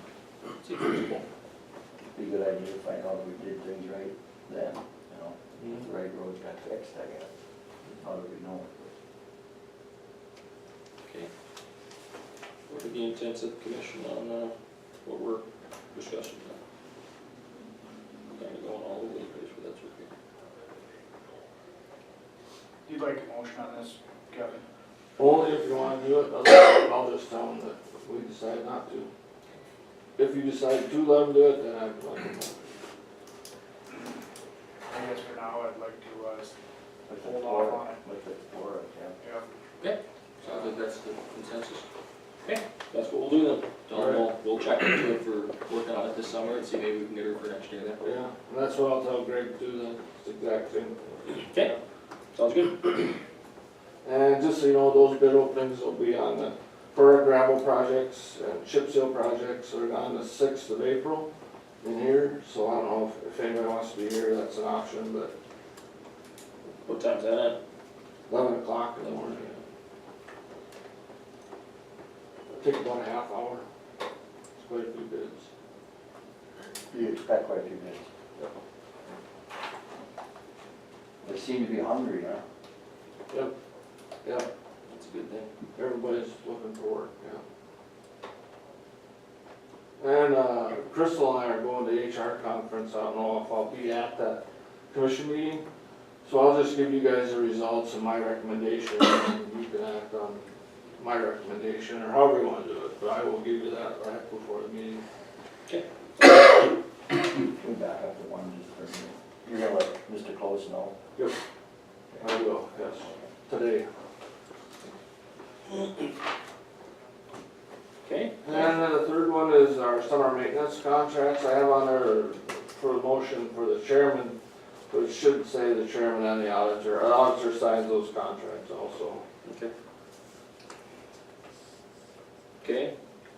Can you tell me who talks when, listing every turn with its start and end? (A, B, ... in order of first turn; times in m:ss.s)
0:00.6-0:01.2 A
0:02.1-0:07.3 B
0:05.6-0:05.8 C
0:08.0-0:08.9 B
0:12.7-0:16.6 A
0:18.3-0:20.1 A
0:22.8-0:24.6 D
0:25.2-0:29.1 C
0:30.2-0:32.5 C
0:34.9-0:36.5 D
0:37.1-0:39.2 B
0:37.1-0:38.0 D
0:39.2-0:39.4 D
0:39.8-0:41.8 A
0:42.4-0:48.0 A
0:43.9-0:44.2 C
0:48.0-0:51.0 C
0:51.3-0:51.7 A
0:52.3-0:53.2 A
0:54.0-1:01.3 C
1:01.8-1:05.3 C
1:06.8-1:07.6 A
1:08.3-1:09.5 C
1:12.5-1:13.6 C
1:14.6-1:15.5 C
1:16.9-1:18.1 B
1:21.2-1:22.4 B
1:24.9-1:25.5 A
1:25.8-1:27.4 C
1:30.0-1:35.6 C
1:36.2-1:40.4 C
1:41.0-1:45.0 C
1:45.7-1:46.5 A
1:47.4-1:51.0 B
1:52.1-1:52.4 B
1:52.2-1:53.8 C
1:58.0-1:58.8 A
1:58.4-2:04.4 C
2:04.9-2:09.2 C
2:09.4-2:09.7 A
2:12.6-2:12.9 A